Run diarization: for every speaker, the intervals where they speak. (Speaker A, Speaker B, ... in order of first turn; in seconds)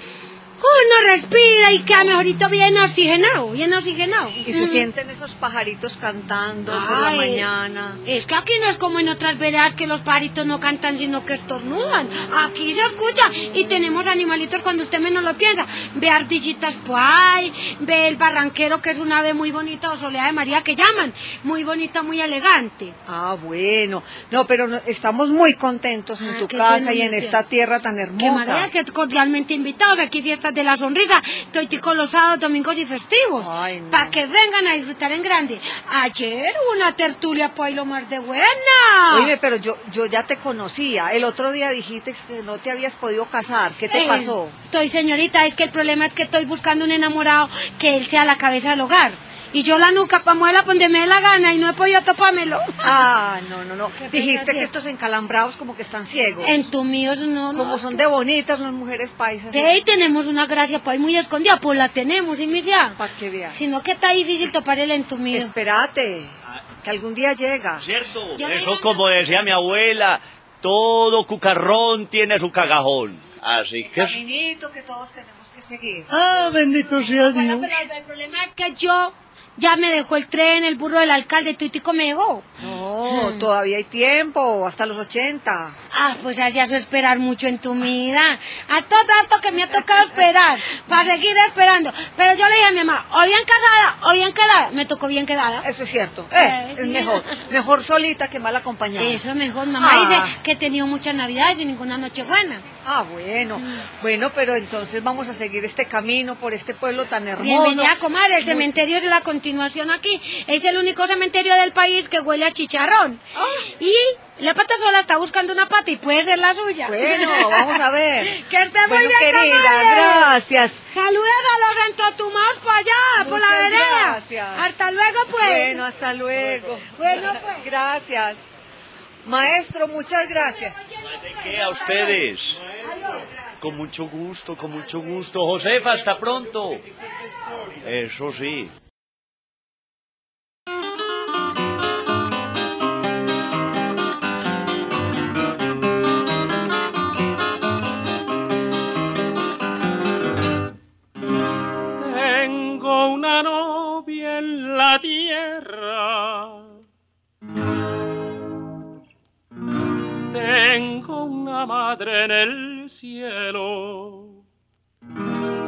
Speaker A: 0.6-4.9, 6.7-7.5, 8.0-22.9, 26.2-27.4, 28.2-39.3, 43.9-52.9, 54.0-54.7, 56.4-58.0, 59.5-65.5, 68.4-69.1, 77.0-82.5, 85.9-95.7, 96.3-97.2, 99.0-102.6, 107.4-117.6, 118.2-120.3, 120.9-125.8, 126.9-127.7, 130.2-133.4
Speaker B: 4.4-8.0, 23.1-28.7, 33.4-34.2, 39.1-44.5, 52.8-56.7, 57.5-59.8, 63.0-63.8, 65.3-67.9, 73.8-76.1, 82.6-85.8, 95.6-99.2, 99.8-100.4, 102.8-108.8, 116.9-118.3, 118.9-120.8, 123.2-124.7, 125.4-128.4, 129.2-130.8
Speaker C: 67.8-74.2, 76.1-77.7, 131.1-132.6, 133.6-136.9, 137.8-138.7
Speaker D: 152.0-156.5, 160.3-164.3